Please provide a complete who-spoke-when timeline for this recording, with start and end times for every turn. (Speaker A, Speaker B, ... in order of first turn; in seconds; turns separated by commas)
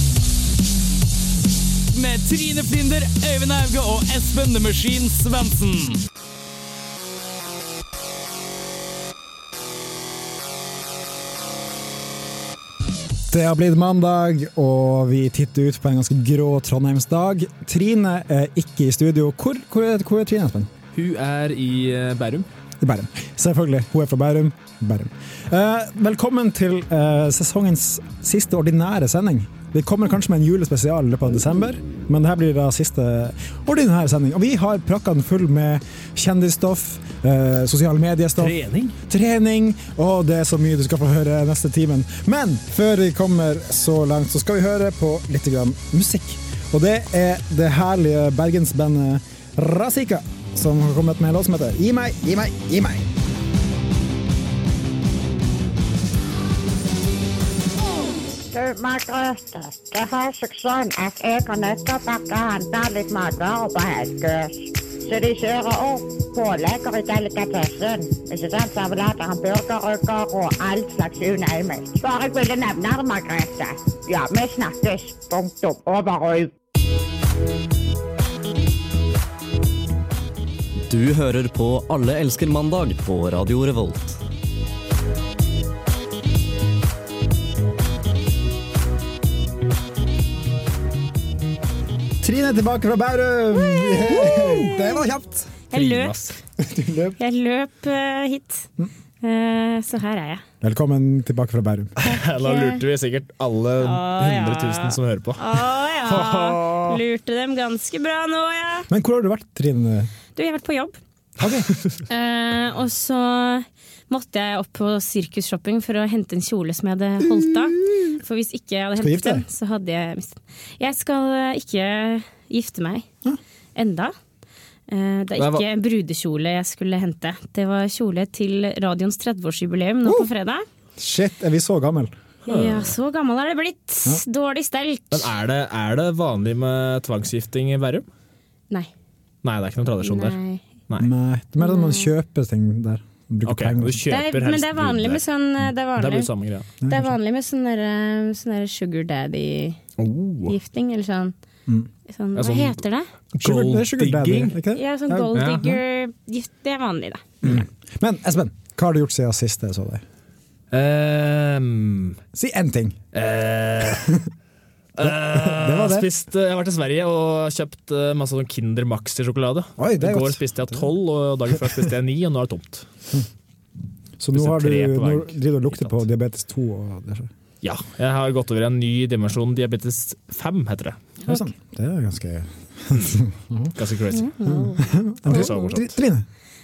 Speaker A: 1.9-6.0, Speaker B: 13.3-20.7, Speaker C: 20.9-22.5, Speaker B: 22.8-53.1, Speaker C: 38.4-38.9, Speaker D: 58.5-76.5, Speaker E: 80.9-84.2, Speaker B: 92.2-95.5, Speaker F: 94.0-95.0, Speaker C: 94.2-94.7, Speaker F: 95.7-96.1, Speaker C: 95.7-96.3, Speaker B: 96.6-97.2, Speaker F: 97.2-98.7, Speaker F: 99.2-100.4, Speaker B: 100.6-101.9, Speaker C: 102.0-107.0, Speaker F: 102.4-102.8, Speaker F: 103.8-108.9, Speaker B: 108.9-110.1, Speaker F: 110.3-111.0, Speaker B: 111.4-111.7, Speaker F: 112.1-123.1, Speaker B: 117.2-118.1, Speaker B: 119.0-119.4, Speaker F: 123.8-124.1, Speaker F: 124.9-130.6, Speaker C: 125.4-125.6, Speaker B: 131.0-132.1, Speaker F: 132.4-135.3, Speaker C: 132.5-132.9, Speaker C: 135.1-138.1, Speaker C: 139.4-140.4, Speaker F: 140.0-140.6, Speaker B: 141.0-144.0, Speaker F: 141.6-142.1, Speaker C: 143.4-145.2, Speaker F: 144.1-146.3, Speaker C: 145.9-146.7, Speaker B: 146.8-147.1, Speaker F: 146.8-149.8, Speaker C: 150.0-150.6, Speaker F: 150.4-151.3, Speaker F: 152.1-153.1, Speaker C: 152.3-152.8, Speaker B: 153.3-155.4, Speaker C: 153.4-154.6, Speaker F: 154.7-157.6, Speaker C: 155.3-155.8, Speaker B: 157.4-160.0, Speaker C: 160.7-162.2, Speaker B: 162.3-163.0, Speaker C: 163.1-164.1, Speaker C: 164.9-172.9, Speaker B: 165.0-166.1, Speaker B: 169.8-170.9, Speaker B: 174.2-177.3, Speaker C: 174.3-176.0, Speaker C: 177.6-181.0, Speaker B: 181.3-183.7, Speaker C: 183.8-184.3, Speaker F: 184.1-185.7, Speaker B: 184.4-186.2, Speaker C: 185.2-185.9